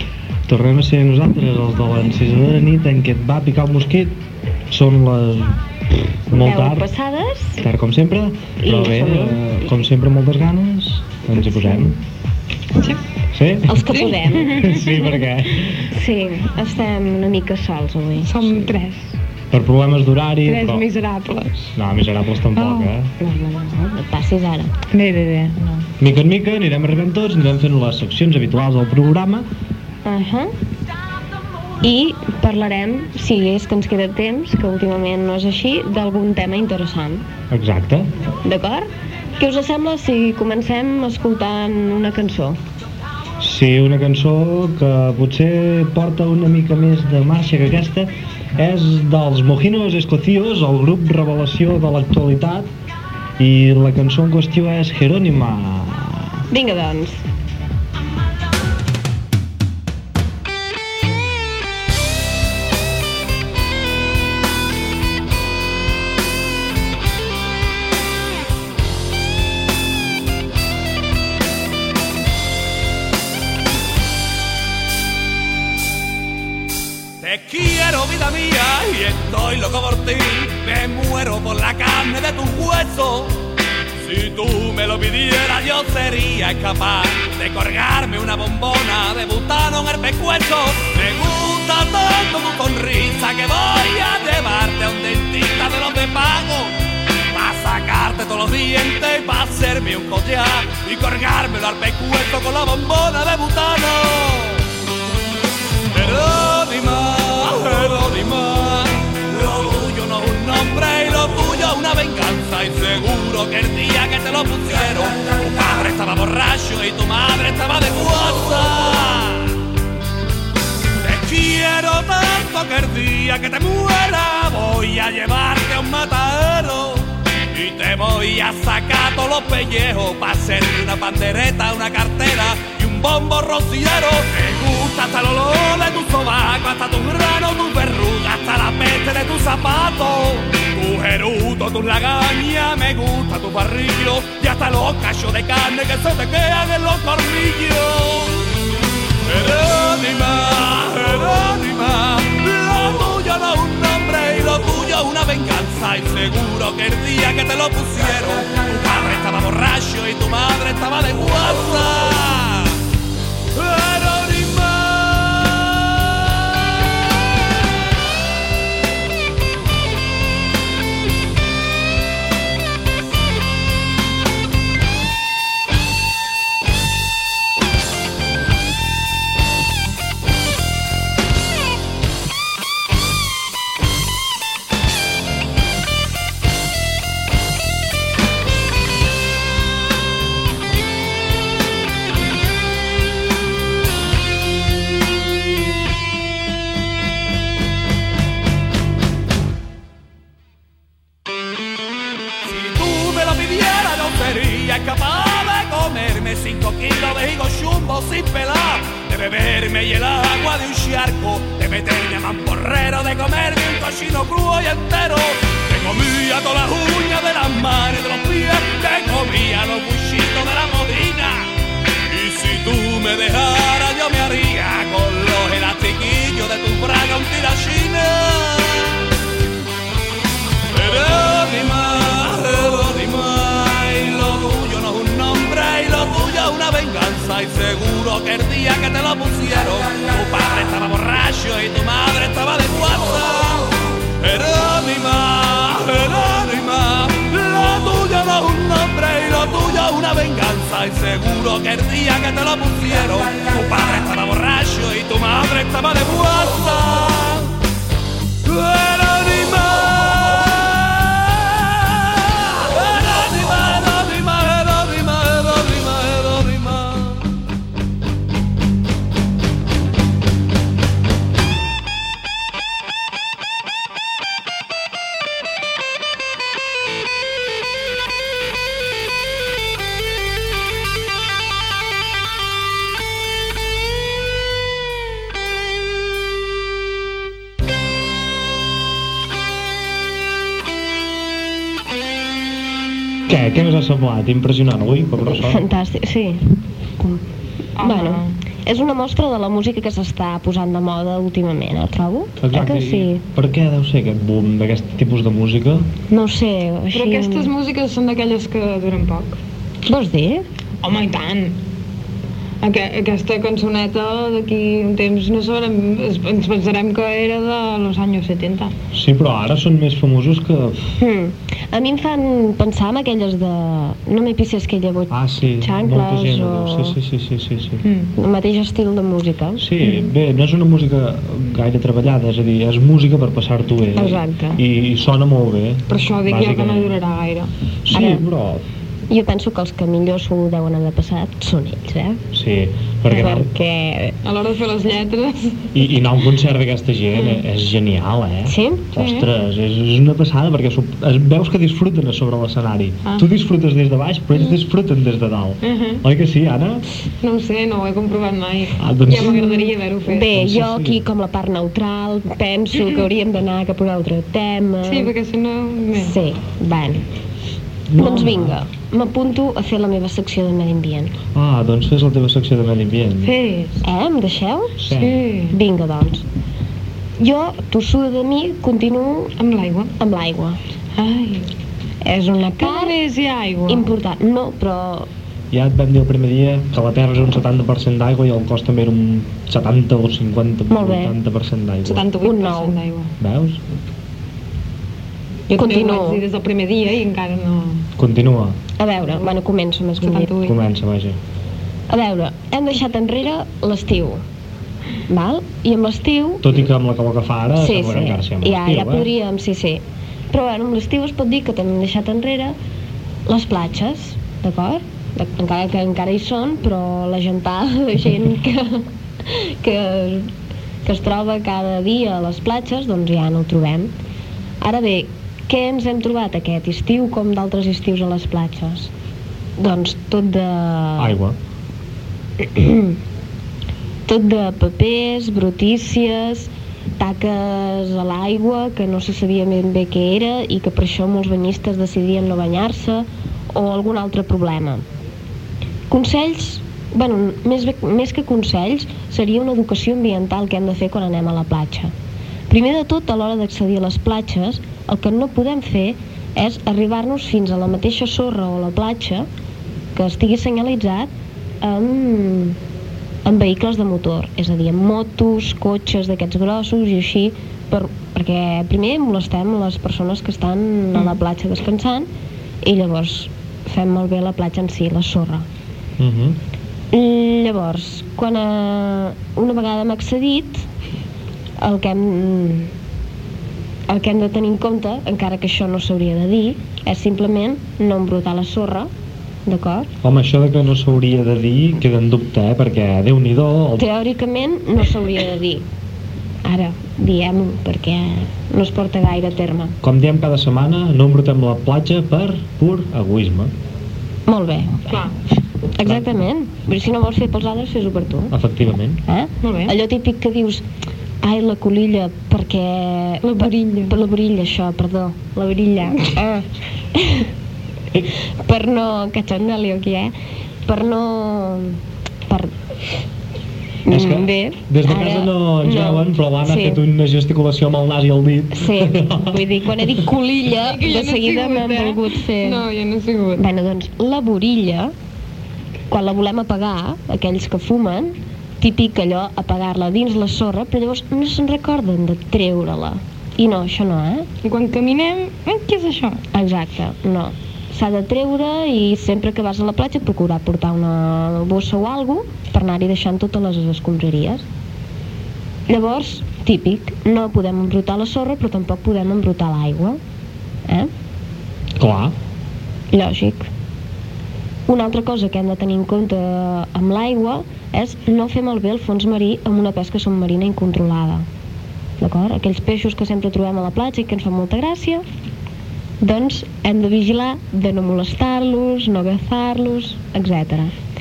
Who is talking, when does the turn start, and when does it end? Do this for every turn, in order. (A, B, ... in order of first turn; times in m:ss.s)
0:00.5-0:04.2 A
0:04.7-0:05.6 A
0:06.3-0:06.9 A
0:06.3-0:07.6 B
0:07.6-0:12.0 A
0:08.6-0:09.6 B
0:13.3-0:13.8 A
0:13.7-0:14.7 B
0:13.8-0:15.2 C
0:14.4-0:15.8 A
0:15.9-0:18.7 B
0:18.2-0:19.2 C
0:19.5-0:20.8 A
0:20.4-0:21.7 C
0:21.8-0:23.1 A
0:22.5-0:22.9 C
0:23.2-0:24.7 B
0:24.9-0:25.9 C
0:26.0-0:29.5 A
0:30.0-0:30.5 B
0:31.8-0:37.3 B
0:37.5-0:38.1 A
0:38.4-0:42.6 B
0:43.4-0:52.7 A
0:53.4-0:56.4 A
0:56.5-0:57.2 B
1:17.2-1:23.4 D
1:24.0-1:36.8 D
1:37.3-1:44.7 D
1:45.9-1:59.6 D
2:01.0-2:28.4 D
2:29.2-2:42.8 D
2:43.5-2:46.4 D
3:22.4-3:41.5 D
3:42.1-3:49.1 D
3:50.7-4:17.6 D
4:18.4-4:27.3 D
4:53.3-4:55.7 A
4:55.4-4:56.4 B
4:57.8-4:58.3 C
4:57.8-5:03.2 B
5:02.4-5:05.9 A
5:06.1-5:07.5 B
5:06.9-5:09.4 C
5:09.8-5:10.4 B
5:10.8-5:11.6 C
5:12.6-5:18.7 C
5:18.9-5:21.0 A
5:21.0-5:27.0 B
5:25.1-5:27.8 A
5:27.8-5:28.1 C
5:28.2-5:29.6 B
5:29.6-5:37.0 A
5:33.9-5:34.6 B
5:35.9-5:37.5 C
5:37.9-5:38.6 A
5:37.9-5:38.2 B
5:39.1-5:42.2 B
5:42.3-5:43.5 A
5:43.1-5:44.2 B
5:44.2-5:45.8 C
5:45.7-5:56.8 A
5:47.1-5:47.4 C
5:48.4-5:48.9 B
5:48.9-5:49.3 C
5:55.6-5:56.0 C
5:57.2-6:00.3 C
5:58.8-5:59.4 A
5:59.2-6:05.1 B
6:00.3-6:01.0 A
6:04.8-6:06.2 C
6:06.0-6:07.0 B
6:07.9-6:08.6 A
6:08.0-6:11.1 B
6:11.3-6:13.3 A
6:13.2-6:13.8 C
6:13.8-6:14.8 B
6:14.8-6:15.2 A
6:14.9-6:15.6 C
6:15.5-6:16.2 B
6:17.2-6:19.4 B
6:19.4-6:19.9 C
6:20.0-6:20.6 B
6:21.0-6:21.5 C
6:22.0-6:23.0 B
6:22.6-6:23.9 C
6:23.7-6:25.1 B
6:25.5-6:32.1 A
6:30.7-6:31.2 B
6:31.8-6:33.1 C
6:32.2-6:32.8 B
6:33.2-6:33.6 A
6:35.5-6:37.9 C
6:35.5-6:36.2 B
6:38.0-6:38.6 A
6:38.8-6:40.4 B
6:40.0-6:40.6 C
6:40.4-6:41.2 A
6:41.9-6:44.2 B
6:45.1-6:46.6 B
6:46.4-6:49.1 A
6:47.6-6:52.6 B
6:53.2-7:00.3 B
7:00.8-7:03.9 B
7:04.6-7:08.9 B
7:09.6-7:11.2 B
7:11.0-7:11.4 A
7:12.4-7:13.0 B
7:14.0-7:24.8 B
7:25.9-7:31.9 B
7:32.5-7:39.3 B
7:39.9-7:42.6 B
7:43.2-7:52.1 B
7:52.6-7:55.5 B
7:56.0-7:56.4 A
7:56.9-8:00.6 B
8:01.6-8:02.7 B
8:03.9-8:08.9 B
8:09.4-8:09.9 B
8:10.0-8:13.9 A
8:13.8-8:15.6 B
8:16.4-8:19.8 B
8:19.8-8:23.5 A
8:24.3-8:25.0 B
8:24.9-8:25.2 C
8:25.7-8:28.4 B
8:28.3-8:29.0 A
8:29.1-8:30.6 B
8:29.4-8:29.8 C
8:31.2-8:37.3 B
8:33.2-8:34.0 C
8:38.4-8:40.1 B
8:40.6-8:42.5 B
8:43.9-8:46.8 B
8:43.9-8:49.9 A
8:48.5-8:52.7 B
8:50.6-8:53.4 C
8:53.4-8:54.9 B
8:55.9-9:04.3 B
9:04.4-9:06.2 C
9:06.3-9:14.4 B
9:15.7-9:20.0 B
9:21.8-9:22.1 A
9:22.9-9:23.5 B
9:24.7-9:31.2 B
9:32.0-9:35.0 B
9:36.0-9:40.7 B